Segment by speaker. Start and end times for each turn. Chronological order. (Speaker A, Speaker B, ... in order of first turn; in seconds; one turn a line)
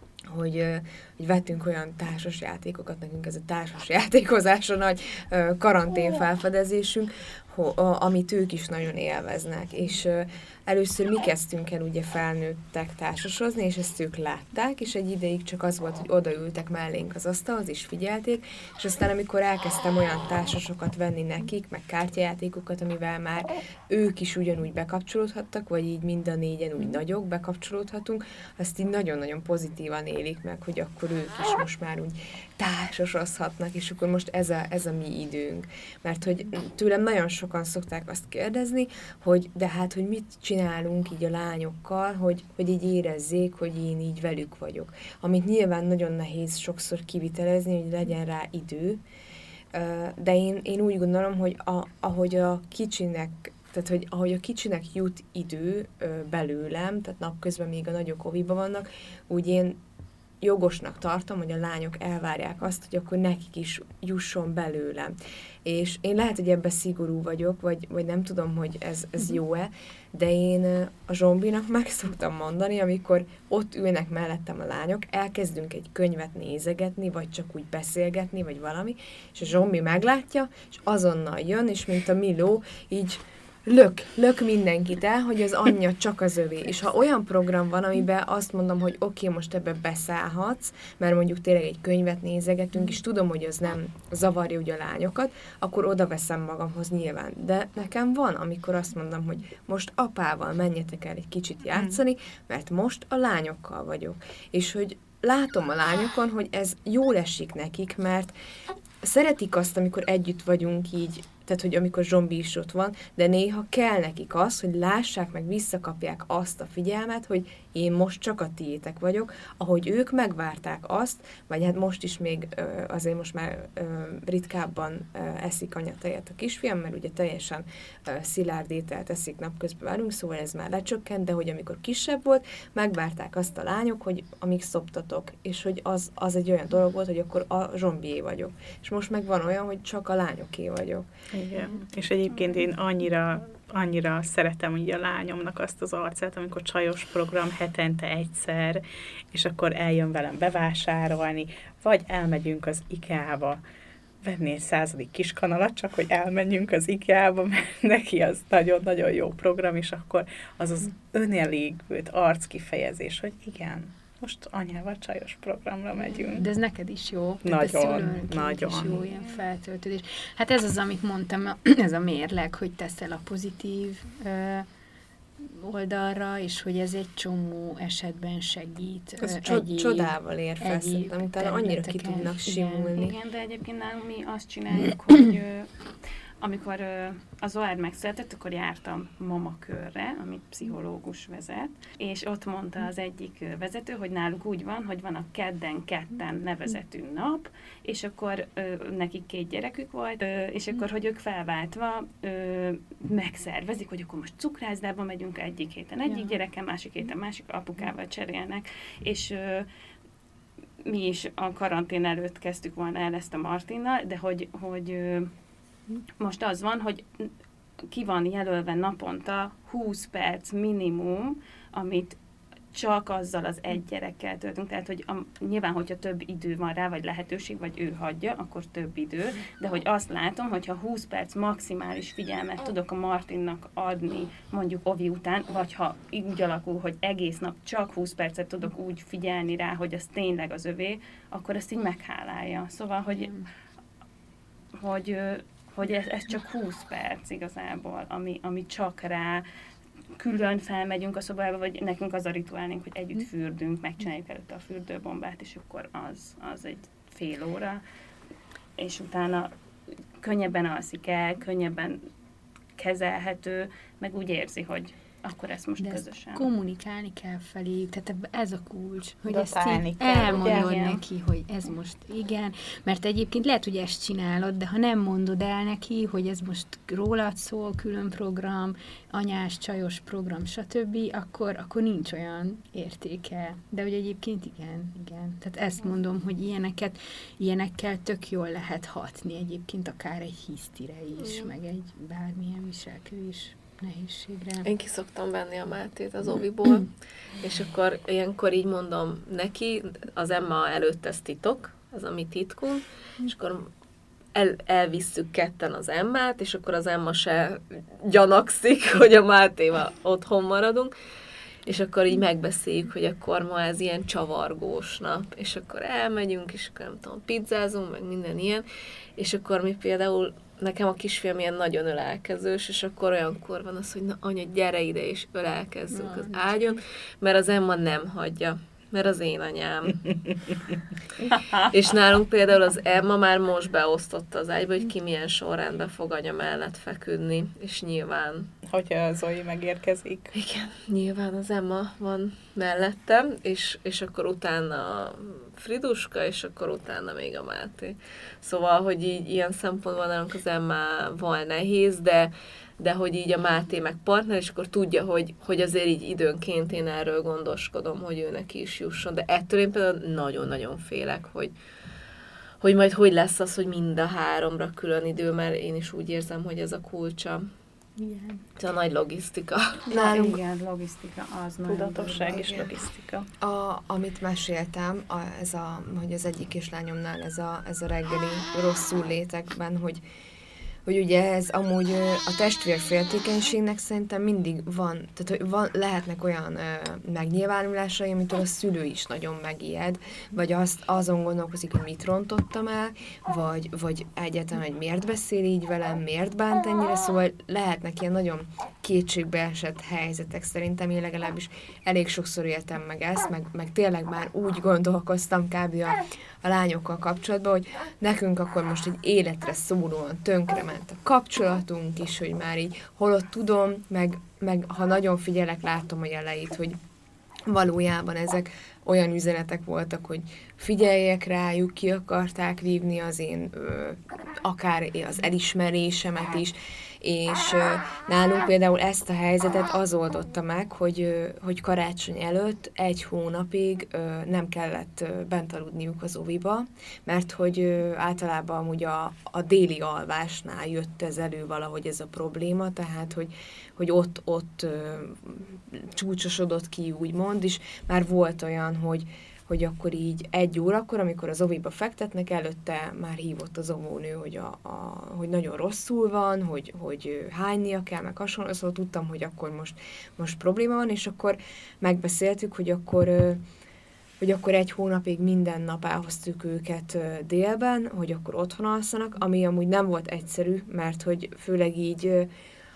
Speaker A: 0.3-49.0
Speaker A: 49.7-59.8
Speaker A: 60.4-108.3
Speaker A: 109.0-141.1
Speaker B: 141.3-153.6
Speaker B: 154.2-166.5
Speaker C: 166.1-174.7
Speaker B: 167.4-169.1
Speaker C: 175.4-183.0
Speaker A: 179.2-183.2
Speaker D: 182.9-185.7
Speaker D: 186.4-209.7
Speaker C: 206.1-206.4
Speaker D: 210.8-215.3
Speaker D: 216.2-217.3
Speaker D: 217.8-222.2
Speaker D: 222.7-243.3
Speaker C: 243.2-243.4
Speaker D: 244.7-249.4
Speaker D: 250.2-257.8
Speaker D: 258.8-259.5
Speaker D: 260.2-262.0
Speaker D: 262.8-266.5
Speaker C: 265.8-294.7
Speaker B: 269.2-270.9
Speaker D: 270.1-270.9
Speaker E: 294.6-303.7
Speaker E: 304.3-310.9
Speaker E: 311.6-318.6
Speaker E: 319.2-330.2
Speaker C: 325.9-326.6
Speaker D: 331.3-331.6
Speaker E: 331.6-338.5
Speaker B: 338.6-340.3
Speaker E: 340.3-361.5
Speaker E: 362.6-367.5
Speaker C: 368.0-368.4
Speaker E: 368.6-369.9
Speaker A: 369.9-370.4
Speaker D: 369.9-372.5
Speaker B: 371.6-373.3
Speaker A: 372.3-372.7
Speaker A: 373.4-380.0
Speaker A: 380.8-416.8
Speaker A: 417.4-463.4
Speaker A: 464.2-472.3